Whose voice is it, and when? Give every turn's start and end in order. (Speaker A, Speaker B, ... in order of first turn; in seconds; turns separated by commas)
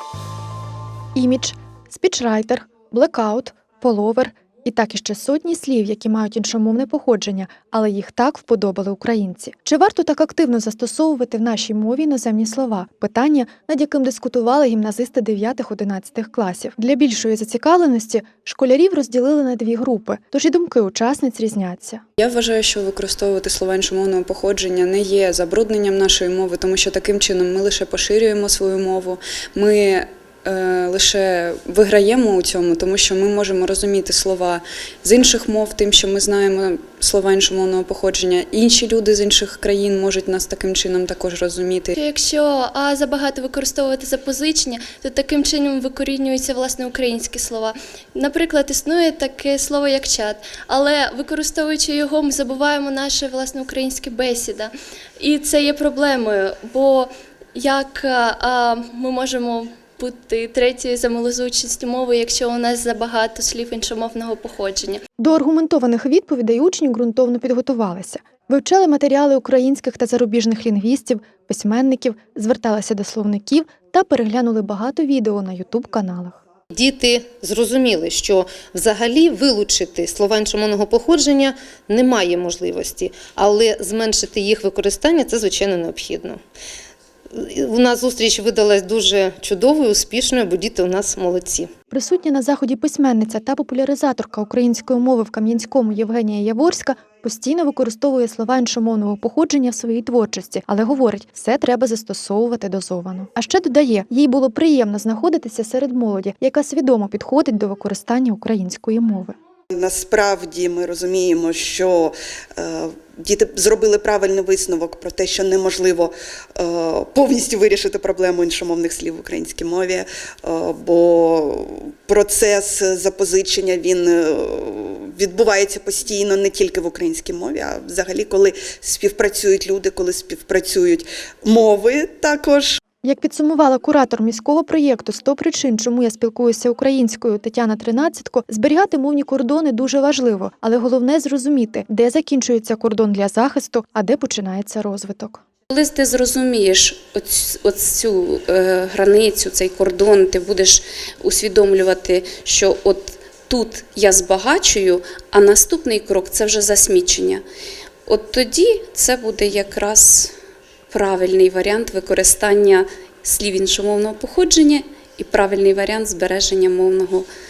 Speaker A: 1.1-22.0, Speaker B: 22.2-41.9, Speaker C: 42.0-65.0, Speaker A: 65.2-76.4, Speaker D: 76.8-86.3, Speaker D: 87.5-91.6, Speaker A: 91.9-109.3, Speaker E: 109.7-132.8, Speaker A: 133.0-145.4, Speaker F: 145.7-157.4, Speaker F: 158.1-160.3, Speaker F: 160.9-167.3